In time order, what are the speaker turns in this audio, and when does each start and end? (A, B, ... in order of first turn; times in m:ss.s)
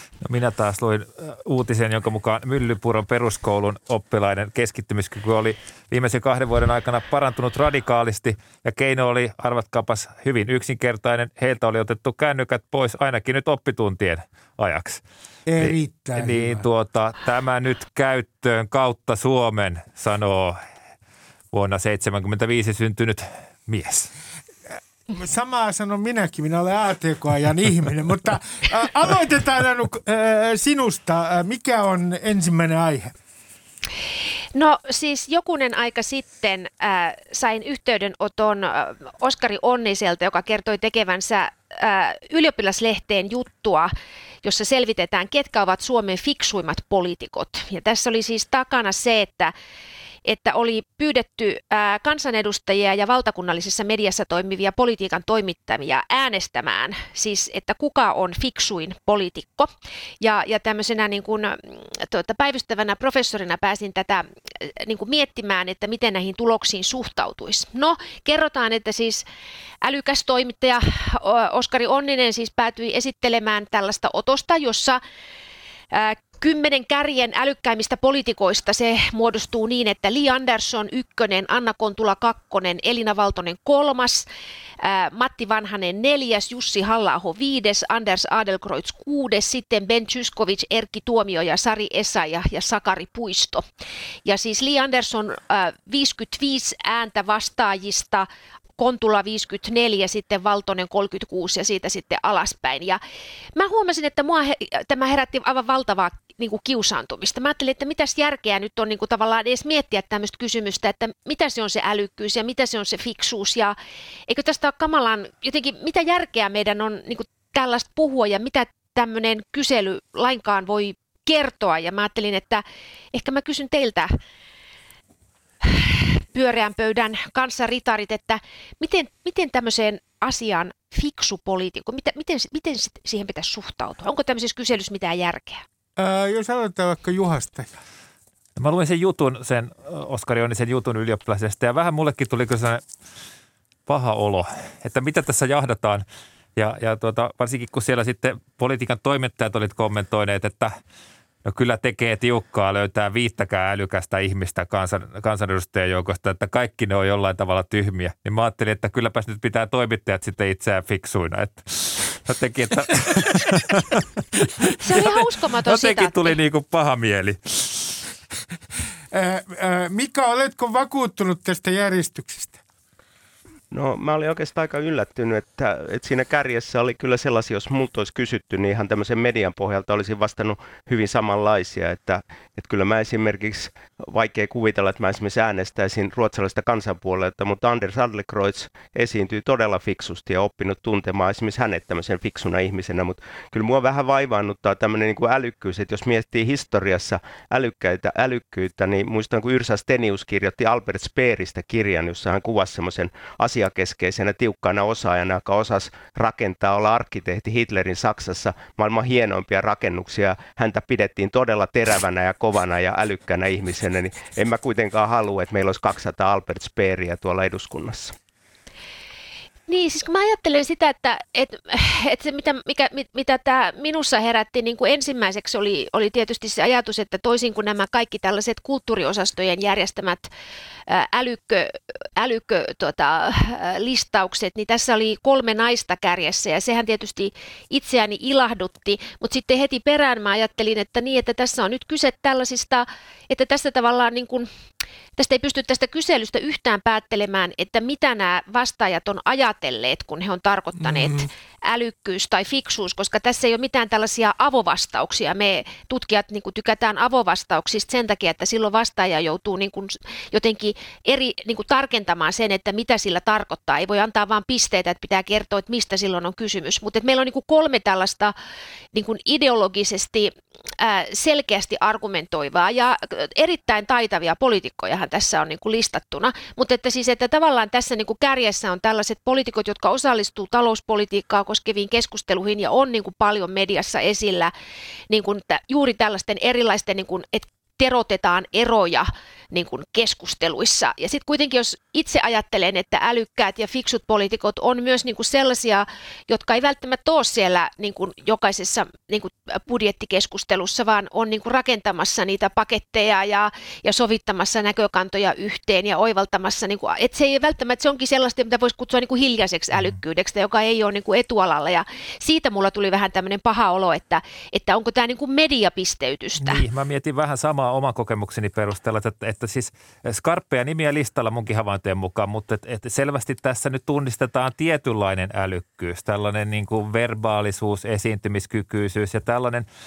0:00.2-0:15.0 A
0:15.5-0:16.6 B
0:15.6-0:20.6 A
0:21.5-0:24.1 A
0:25.1-0:33.1 B
0:34.5-0:49.5 C
0:50.2-0:59.7 C
1:00.2-1:09.2 C
1:09.8-1:15.0 C
1:15.9-1:24.3 C
1:24.8-1:33.6 C
1:34.2-1:38.3 C
1:38.8-1:43.0 C
1:43.6-1:53.8 C
1:54.3-2:04.1 C
2:05.6-2:15.6 C
2:16.0-2:17.8 B
2:18.6-2:22.8 A
2:23.9-2:26.0 A
2:26.6-2:30.8 A
2:31.4-2:44.5 A
2:44.8-2:46.4 C
2:45.0-2:48.0 A
2:49.1-2:52.6 B
2:53.7-3:38.1 D
3:39.7-3:50.3 C
3:50.9-4:04.5 C
4:05.2-4:28.3 C
4:28.9-4:44.5 C
4:45.1-5:16.6 C
5:16.4-5:29.7 A